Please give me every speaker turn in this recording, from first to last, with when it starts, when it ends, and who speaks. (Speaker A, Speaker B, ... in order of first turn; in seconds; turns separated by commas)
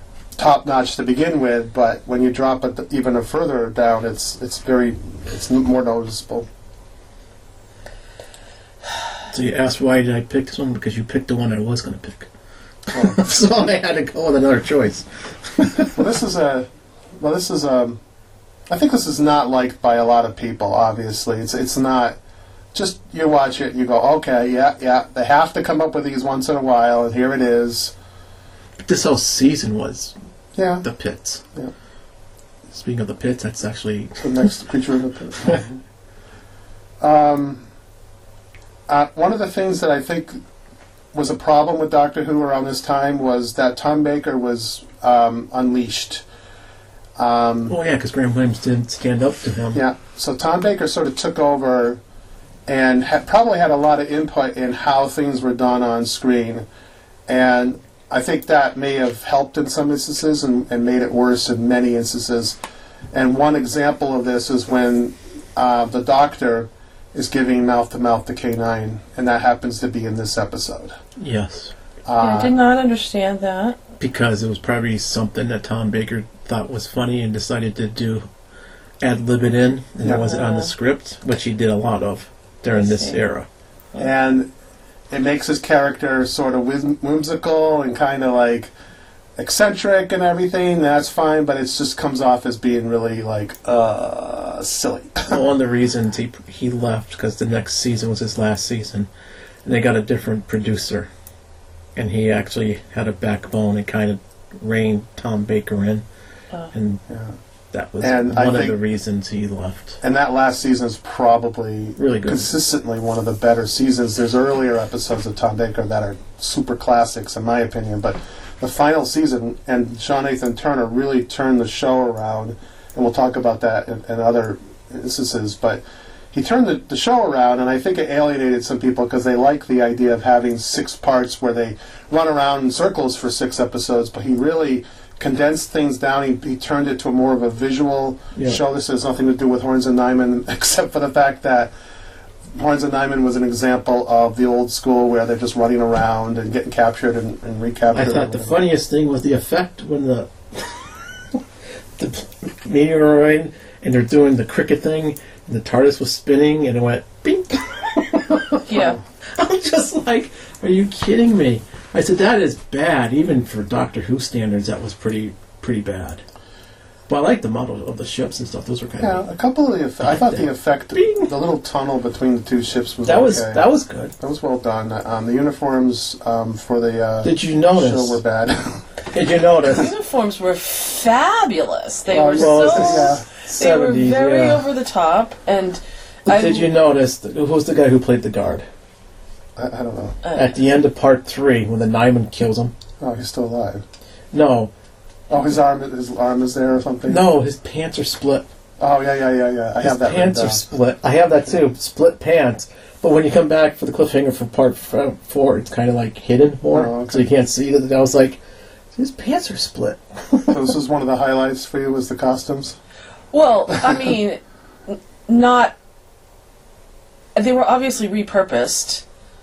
Speaker A: 0.4-6.5, Speaker B: 9.3-12.3, Speaker B: 12.9-15.9, Speaker A: 12.9-13.2, Speaker A: 16.0-16.7, Speaker A: 17.2-18.0, Speaker A: 18.7-22.2, Speaker A: 22.7-27.9, Speaker B: 28.8-30.1, Speaker A: 30.6-30.9, Speaker B: 30.8-31.4, Speaker B: 32.7-34.3, Speaker A: 34.2-35.8, Speaker A: 37.0-37.6, Speaker A: 38.9-40.4, Speaker A: 41.1-46.2, Speaker A: 47.2-47.8, Speaker B: 47.7-49.8, Speaker A: 49.7-52.0, Speaker A: 52.7-56.7, Speaker A: 57.3-62.6, Speaker A: 63.1-71.0, Speaker B: 71.2-71.7, Speaker A: 72.1-72.5, Speaker C: 72.2-73.8, Speaker B: 74.0-78.3, Speaker B: 79.0-83.5, Speaker A: 80.0-80.3, Speaker C: 80.2-80.7, Speaker C: 82.7-83.2, Speaker A: 84.0-84.5, Speaker A: 85.1-88.7, Speaker A: 89.4-95.4, Speaker B: 95.3-99.1, Speaker B: 99.6-101.1, Speaker B: 102.0-106.0, Speaker B: 106.7-107.0, Speaker A: 107.1-107.4, Speaker B: 107.7-110.0, Speaker A: 108.0-108.8, Speaker A: 110.0-141.7, Speaker B: 112.0-112.5, Speaker A: 142.5-148.6, Speaker B: 147.9-150.9, Speaker B: 152.0-166.2, Speaker C: 158.7-159.0, Speaker B: 167.1-169.2, Speaker A: 169.0-173.7, Speaker B: 170.0-171.3, Speaker B: 173.0-174.1, Speaker A: 174.2-178.8, Speaker B: 177.2-178.2, Speaker B: 179.1-179.9, Speaker C: 179.7-186.7, Speaker A: 182.1-183.2, Speaker B: 182.4-184.6, Speaker B: 186.3-188.7, Speaker A: 189.6-190.2, Speaker C: 190.2-190.6, Speaker B: 190.3-192.7, Speaker A: 193.0-193.8, Speaker B: 194.3-194.7, Speaker A: 195.3-197.2, Speaker B: 197.1-198.5, Speaker A: 198.8-200.7, Speaker B: 199.8-208.4, Speaker A: 206.7-207.3, Speaker B: 209.0-210.7, Speaker A: 210.5-212.8, Speaker C: 213.3-215.8, Speaker A: 213.7-214.0, Speaker C: 217.3-219.0